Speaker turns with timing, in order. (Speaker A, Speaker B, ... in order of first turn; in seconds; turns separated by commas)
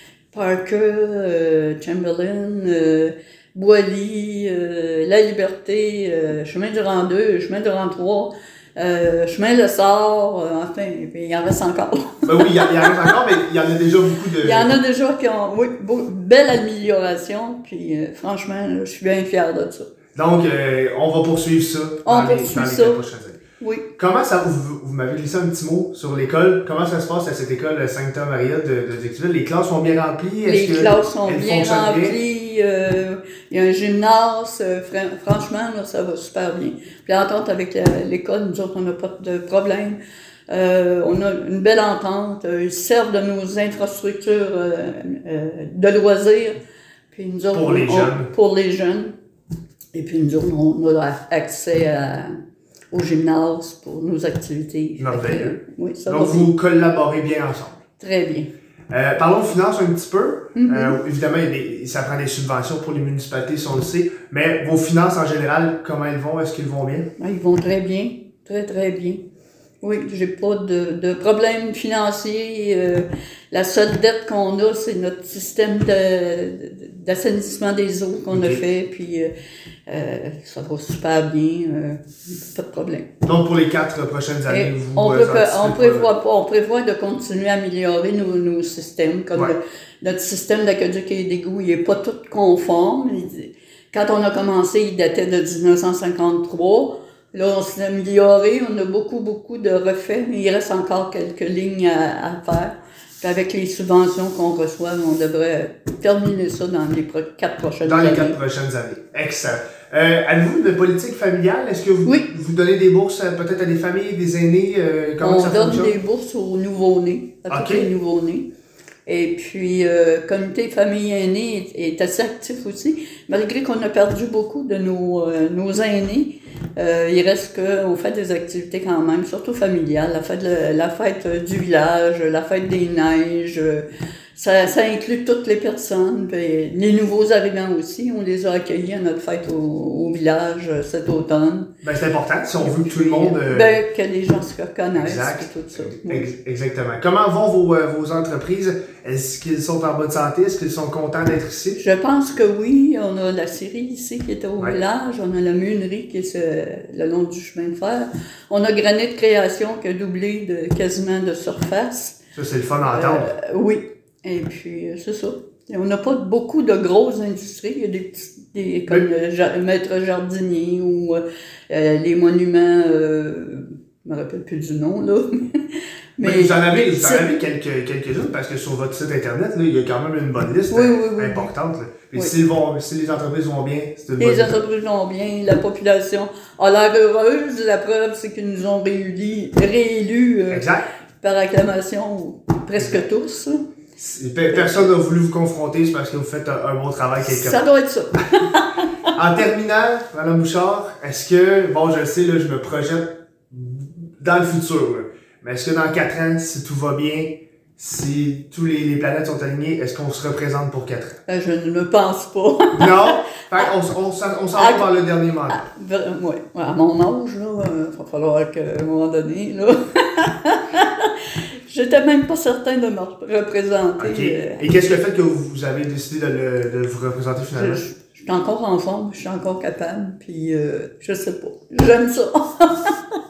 Speaker A: 0.3-13.2, Speaker B: 12.3-14.8, Speaker A: 14.4-19.9, Speaker B: 20.1-23.4, Speaker A: 22.1-23.1, Speaker A: 23.6-23.9, Speaker B: 24.0-32.2, Speaker A: 30.4-46.6, Speaker A: 47.1-49.1, Speaker B: 47.5-48.3, Speaker A: 49.9-52.3, Speaker A: 52.9-56.5, Speaker B: 55.0-57.8, Speaker A: 58.0-58.5, Speaker B: 58.9-67.1, Speaker A: 60.6-61.0, Speaker A: 67.2-69.2, Speaker A: 69.8-79.3, Speaker B: 78.3-78.6, Speaker A: 79.9-83.1, Speaker B: 83.2-86.1, Speaker A: 84.5-108.4, Speaker B: 107.8-116.0, Speaker A: 115.2-118.5, Speaker B: 117.5-117.9, Speaker A: 119.1-141.7, Speaker B: 141.8-143.8, Speaker A: 142.6-146.3, Speaker B: 144.9-151.8, Speaker A: 151.8-162.2, Speaker B: 162.3-163.3, Speaker A: 162.9-177.3, Speaker B: 176.2-184.6, Speaker A: 180.7-181.5, Speaker A: 184.2-190.7, Speaker B: 190.5-190.9, Speaker A: 191.2-193.6, Speaker B: 194.0-197.6, Speaker A: 194.5-194.8, Speaker A: 197.2-198.9, Speaker B: 199.2-211.2, Speaker A: 211.3-213.7, Speaker B: 212.7-215.7, Speaker A: 214.5-214.9, Speaker A: 215.5-224.7, Speaker B: 224.0-227.8, Speaker A: 227.6-233.2